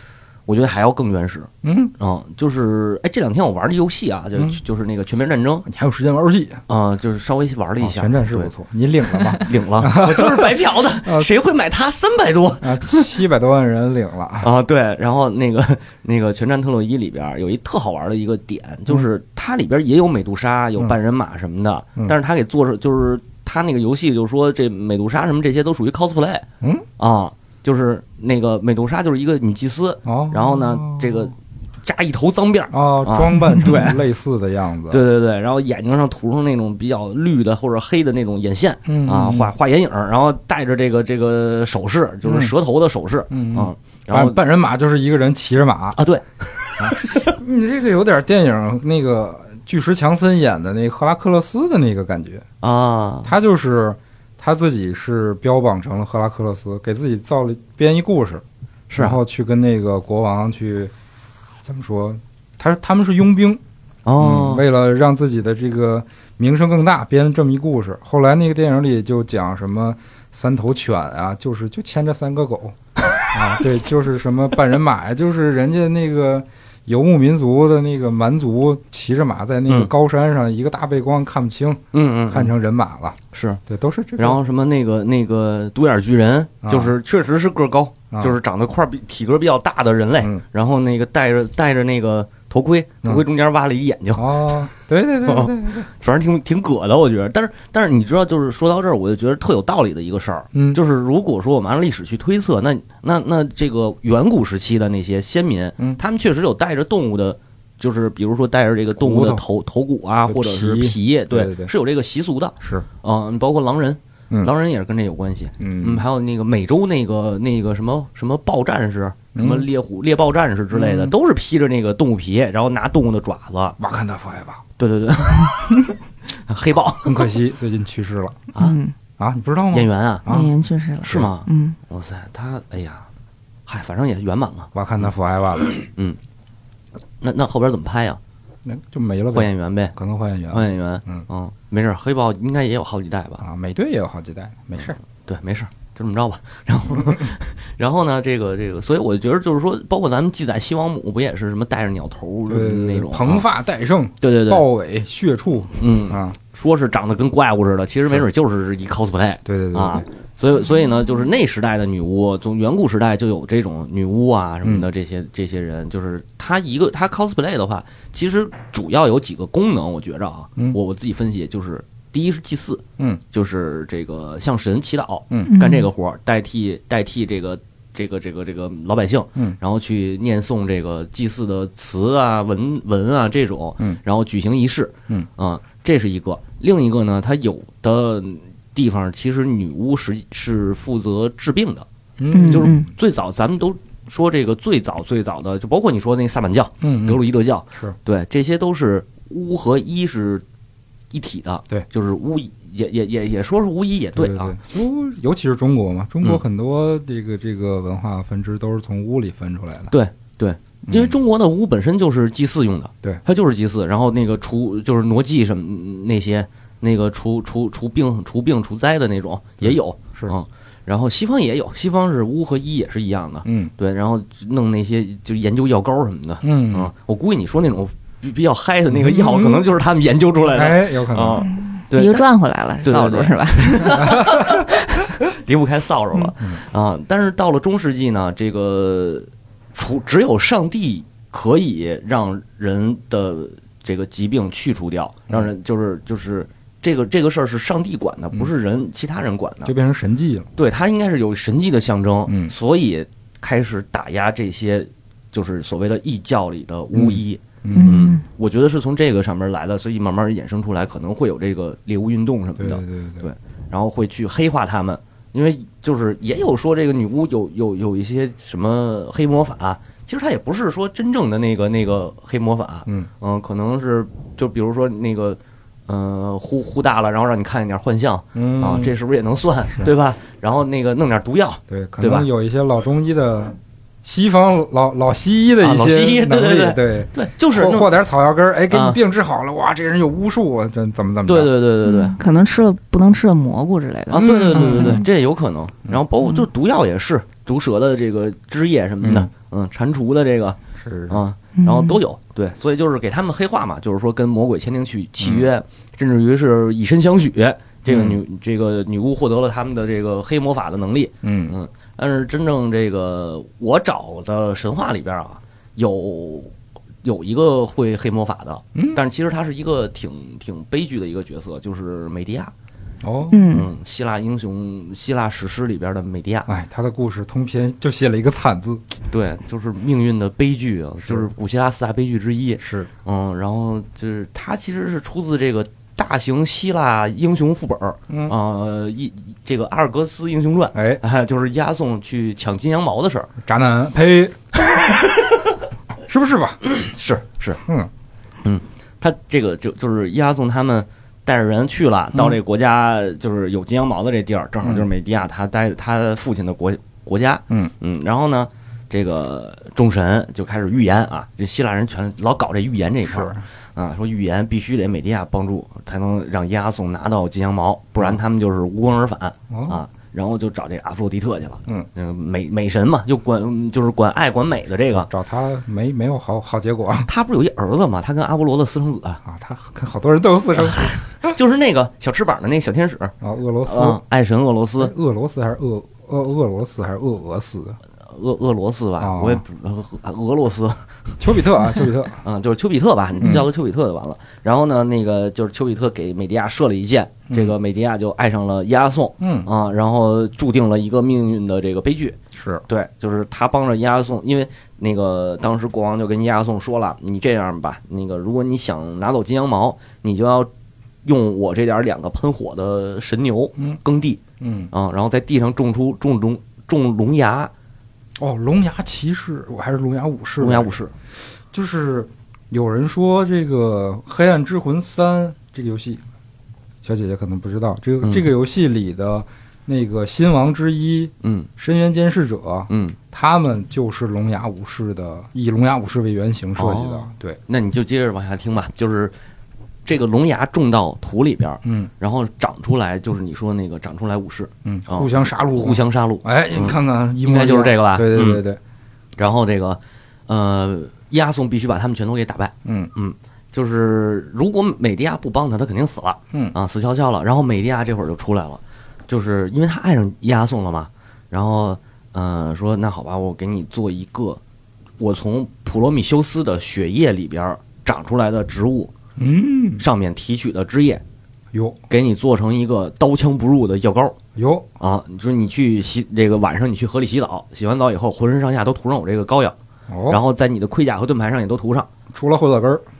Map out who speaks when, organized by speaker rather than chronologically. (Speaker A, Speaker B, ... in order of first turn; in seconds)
Speaker A: 0.5-5.7, 6.7-8.5, 9.1-13.2, 14.4-26.4, 27.0-34.0, 34.9-44.4, 46.0-47.3, 52.6-53.3, 58.9-59.2, 64.0-64.6, 81.9-82.5, 83.3-83.6, 84.2-94.7, 95.2-123.8, 124.8-127.3, 129.7-130.3, 131.0-133.1, 133.7-134.7, 135.6-136.2, 137.2-138.2, 139.3-139.9, 140.5-143.4, 145.2-153.4, 154.2-154.6, 155.8-191.8, 192.4-200.4, 201.1-204.6, 209.9-232.2, 232.8-249.7, 250.6-282.3, 285.6-287.9, 288.7-289.0, 291.2-292.1, 294.1-300.6, 301.1-322.5, 323.5-326.5, 329.1-343.3, 344.7-345.4, 346.6-347.6, 348.4-375.1, 377.1-379.2, 380.6-383.1, 383.6-384.9, 388.1-391.2, 392.2-402.2, 402.7-410.5, 411.0-414.2, 414.7-417.5, 420.4-420.9, 428.0-428.3, 431.2-431.5, 432.7-433.0, 436.6-439.1, 439.9-448.4, 449.2-464.4, 465.0-468.9, 469.8-471.0, 471.9-474.1, 474.8-479.5, 480.1-481.9
Speaker B: 1.6-1.9, 5.7-6.6, 7.8-11.3, 12.6-14.5, 30.1-31.3, 32.7-35.0, 38.9-39.5, 42.2-42.5, 43.3-46.0, 46.8-52.4, 53.2-58.4, 59.0-60.9, 61.6-63.6, 64.2-72.8, 73.3-84.4, 86.6-87.0, 94.1-95.9, 100.5-100.8, 109.0-109.4, 110.2-111.7, 112.6-112.8, 115.6-116.0, 119.3-119.7, 120.7-121.2, 123.8-124.6, 127.0-128.4, 129.2-130.5, 134.7-135.7, 138.6-141.2, 143.4-145.0, 152.5-156.4, 159.4-160.1, 192.2-192.8, 196.8-197.2, 204.2-209.9, 210.9-211.2, 219.6-220.3, 223.4-223.7, 226.4-226.9, 228.9-229.7, 230.4-231.5, 234.0-234.5, 249.6-250.5, 252.3-252.5, 256.9-258.1, 262.6-263.3, 278.3-278.9, 281.7-291.5, 294.2-295.0, 299.0-299.3, 300.8-301.2, 305.2-305.5, 307.9-308.2, 311.2-311.6, 318.7-319.0, 323.0-323.4, 326.5-328.9, 332.6-332.9, 338.1-338.4, 340.7-341.0, 343.4-344.6, 346.1-346.6, 347.6-347.9, 354.6-354.9, 363.1-363.4, 369.5-369.8, 374.9-377.1, 379.2-381.3, 383.2-384.0, 384.8-387.8, 389.0-389.4, 391.2-392.2, 393.2-393.5, 397.3-397.6, 399.2-399.5, 402.3-402.6, 414.4-414.7, 418.2-420.8, 421.5-426.0, 426.8-437.4, 441.6-441.9, 444.6-448.6, 452.6-452.9, 469.2-469.8, 471.5-471.8, 474.4-474.7, 479.9-480.2, 482.1-482.8
Speaker C: 128.6-128.9, 130.3-131.8, 175.5-175.9, 192.3-192.8, 231.9-234.8, 257.7-258.2, 291.9-295.0, 301.6-302.0, 323.3-323.7